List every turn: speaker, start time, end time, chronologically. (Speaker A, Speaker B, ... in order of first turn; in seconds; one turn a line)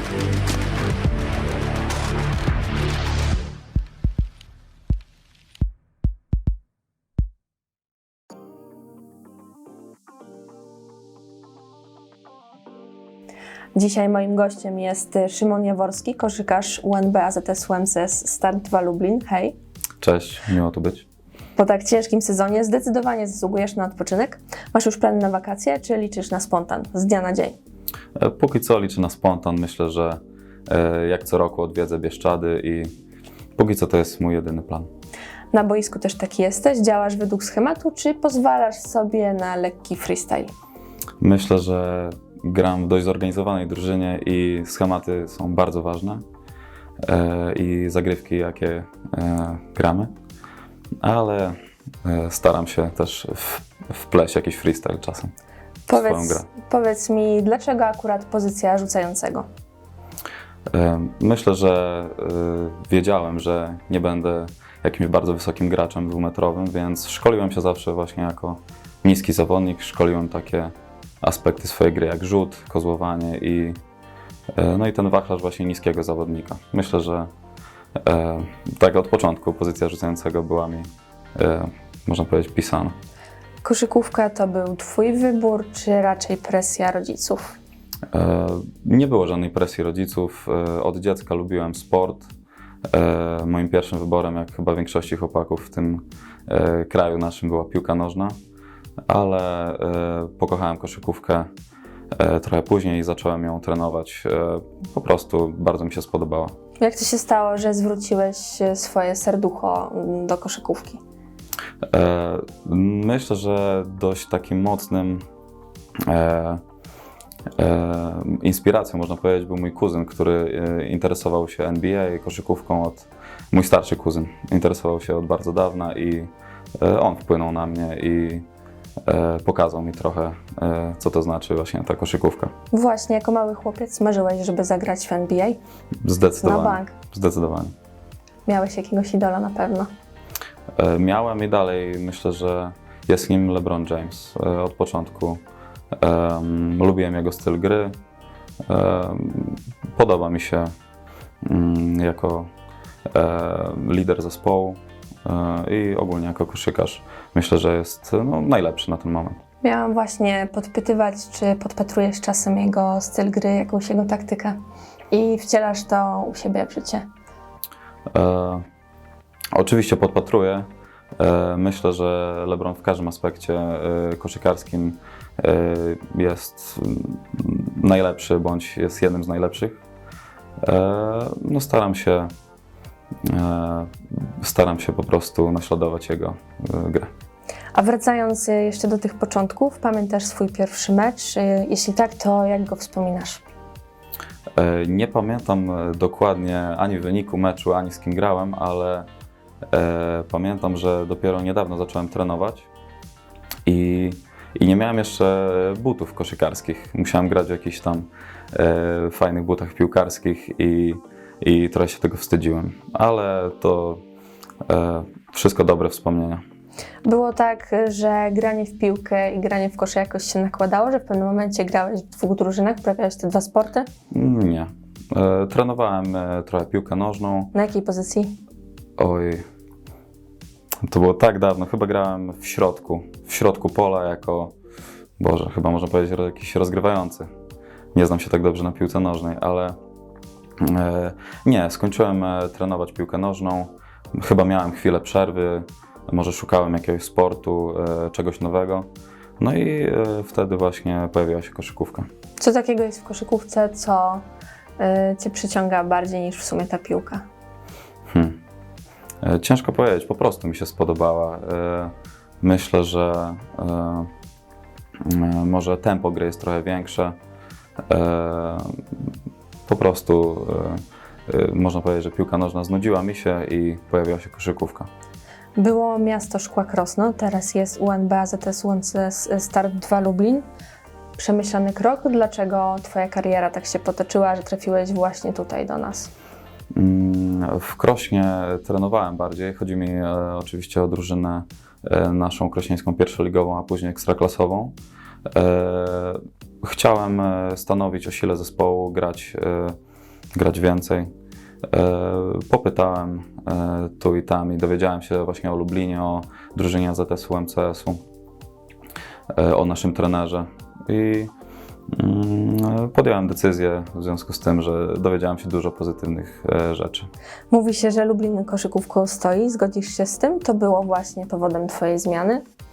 Speaker A: 13.8-19.6
Speaker B: 20.0-21.1
Speaker A: 21.6-27.6
Speaker B: 28.2-32.9
Speaker B: 33.6-34.9
Speaker A: 35.5-40.5
Speaker B: 41.2-46.2
Speaker B: 47.0-50.1
Speaker B: 51.0-55.3
Speaker A: 55.9-59.5
Speaker B: 55.9-56.5
Speaker B: 60.7-73.8
Speaker B: 74.5-77.3
Speaker B: 78.0-83.0
Speaker A: 83.6-87.6
Speaker B: 88.1-92.3
Speaker B: 92.9-98.4
Speaker B: 99.1-101.5
Speaker B: 102.1-106.5
Speaker A: 106.8-111.0
Speaker B: 111.9-115.2
Speaker B: 116.1-116.6
Speaker B: 117.6-128.4
Speaker B: 129.1-132.5
Speaker A: 132.7-135.6
Speaker B: 136.0-137.7
Speaker A: 136.4-136.9
Speaker A: 138.5-139.9
Speaker B: 140.8-145.4
Speaker B: 145.9-147.9
Speaker B: 148.7-150.7
Speaker B: 151.4-152.5
Speaker B: 153.1-159.4
Speaker A: 159.6-164.6
Speaker A: 165.1-167.1
Speaker B: 168.1-168.7
Speaker B: 169.6-179.8
Speaker B: 180.6-182.3
Speaker B: 183.2-187.1
Speaker A: 187.7-193.4
Speaker B: 194.6-199.1
Speaker B: 199.7-202.7
Speaker B: 203.7-214.0
Speaker B: 214.7-216.4
Speaker A: 217.0-223.9
Speaker B: 224.1-227.5
Speaker A: 227.5-228.4
Speaker B: 229.0-229.4
Speaker B: 230.8-234.5
Speaker B: 235.2-237.3
Speaker B: 237.9-239.8
Speaker B: 240.6-248.9
Speaker B: 249.4-252.1
Speaker A: 252.4-254.2
Speaker A: 254.8-257.2
Speaker B: 258.1-258.4
Speaker B: 259.2-264.1
Speaker B: 265.0-267.2
Speaker B: 267.9-268.8
Speaker B: 269.7-274.9
Speaker A: 275.6-280.5
Speaker A: 281.2-286.1
Speaker B: 286.7-294.8
Speaker B: 295.3-299.8
Speaker B: 300.3-301.1
Speaker B: 301.7-308.0
Speaker B: 309.3-311.3
Speaker B: 311.9-317.1
Speaker A: 317.5-322.4